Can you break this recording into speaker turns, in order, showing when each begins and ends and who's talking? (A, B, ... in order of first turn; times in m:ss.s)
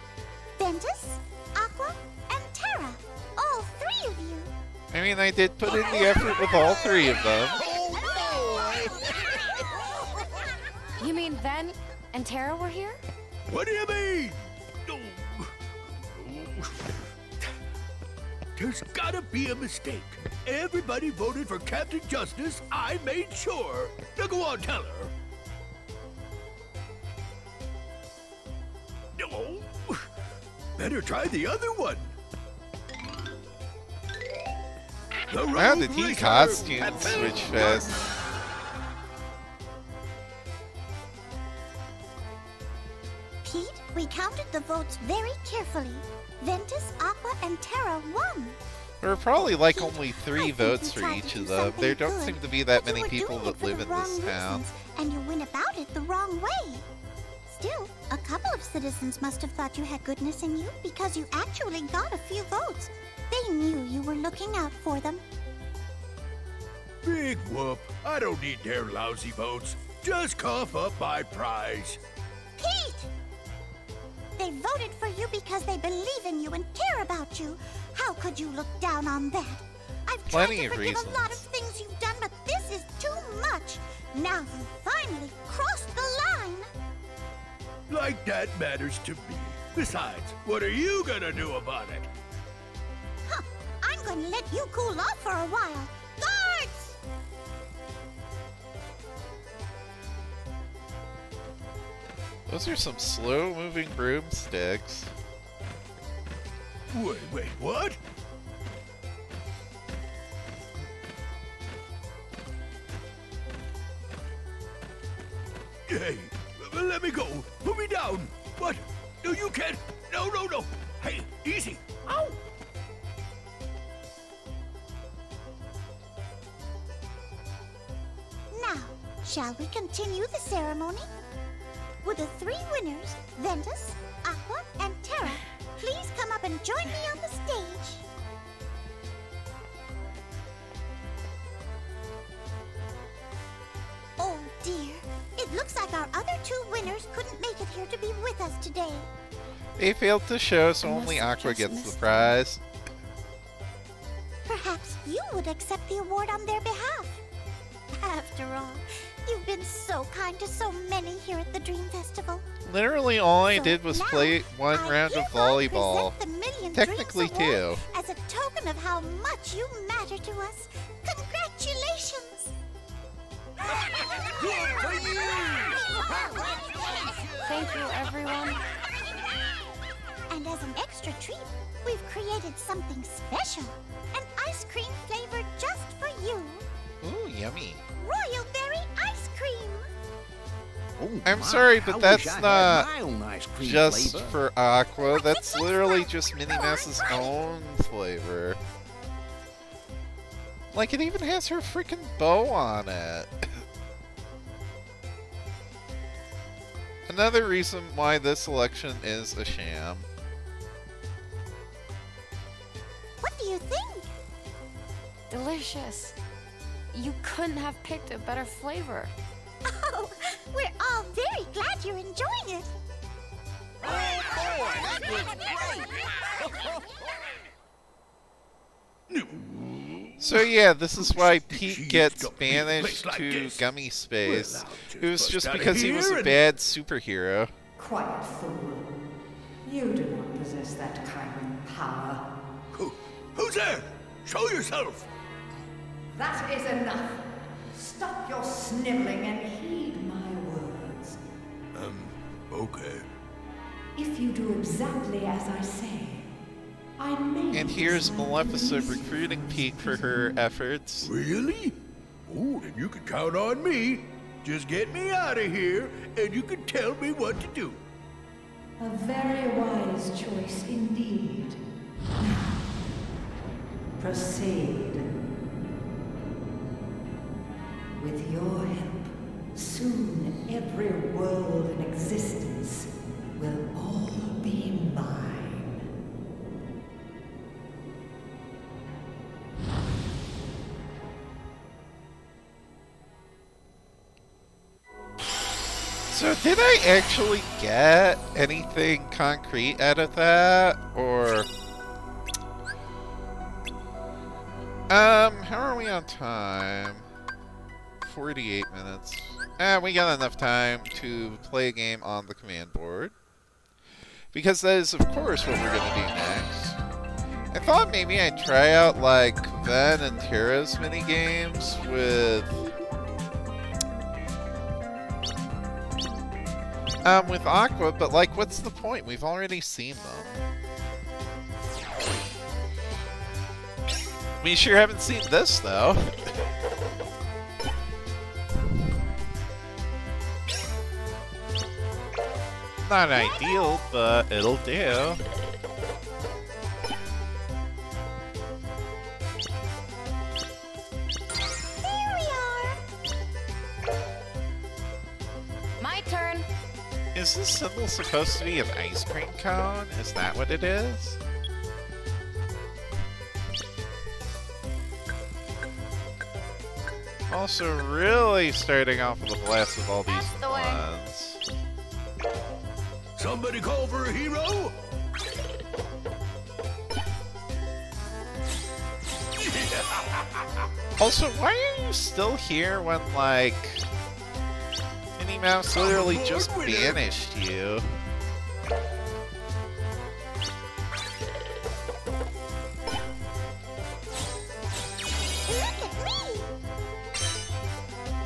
0:00.6-0:04.5 A
0:04.9-0:07.6 B
0:06.1-0:09.6 A
0:07.8-0:09.0 C
0:11.0-0:13.0 D
0:13.5-0:17.0 E
0:18.6-0:25.1 E
0:29.1-0:30.1 E
0:30.8-0:32.1 E
0:35.3-0:38.0 E
0:35.6-0:38.0 B
0:43.4-0:48.6 A
0:49.0-0:54.6 B
0:49.4-0:56.9 A
0:57.5-1:05.2 A
1:07.0-1:12.0 E
1:12.6-1:13.1 A
1:14.4-1:26.7 A
1:20.3-1:21.4 B
1:27.9-1:32.1 E
1:33.3-1:37.0 A
1:42.5-1:45.1 B
1:46.9-1:48.0 E
1:55.9-2:02.4 E
2:08.5-2:11.1 A
2:12.0-2:18.0 A
2:24.2-2:29.1 A
2:29.8-2:32.6 B
2:30.8-2:32.4 D
2:34.5-2:37.2 A
2:37.9-2:42.5 A
2:42.6-2:46.1 B
2:43.4-2:52.6 A
2:46.7-2:47.8 B
2:53.6-2:57.4 A
2:54.3-2:57.8 C
2:57.4-2:58.6 D
3:00.3-3:06.7 A
3:07.0-3:07.8 B
3:08.0-3:09.9 A
3:11.0-3:14.4 C
3:11.2-3:12.9 B
3:13.6-3:18.6 B
3:15.1-3:17.4 A
3:20.7-3:23.6 B
3:27.1-3:30.1 B
3:33.2-3:34.1 A
3:35.3-3:36.2 D
3:36.9-3:39.1 D
3:39.6-3:42.7 A
3:44.1-3:46.0 C
3:49.1-3:50.4 E
3:50.2-3:57.5 B
3:51.0-3:53.7 E
3:54.2-3:56.4 E
3:57.8-3:59.0 F
3:59.6-4:02.3 F
4:02.7-4:05.1 E
4:06.1-4:11.2 F
4:11.7-4:13.1 E
4:14.0-4:16.4 F
4:17.0-4:20.4 F
4:17.5-4:21.1 B
4:21.0-4:27.8 E
4:28.8-4:31.6 F
4:32.2-4:32.7 F
4:34.0-4:35.1 F
4:38.0-4:45.8 F
4:56.1-5:01.5 B
5:04.9-5:07.1 B
5:08.0-5:13.1 B
5:14.3-5:16.8 B
5:17.5-5:22.6 B
5:27.0-5:30.4 B
5:34.4-5:36.1 B
5:42.8-5:45.2 B
5:51.8-5:52.8 A
5:55.8-5:56.5 D
5:57.1-6:01.2 B
6:07.3-6:11.4 B
6:10.1-6:10.8 D
6:13.2-6:14.8 E
6:19.4-6:20.6 E
6:21.0-6:23.9 B
6:25.2-6:27.9 B
6:25.7-6:27.1 E
6:35.5-6:36.5 A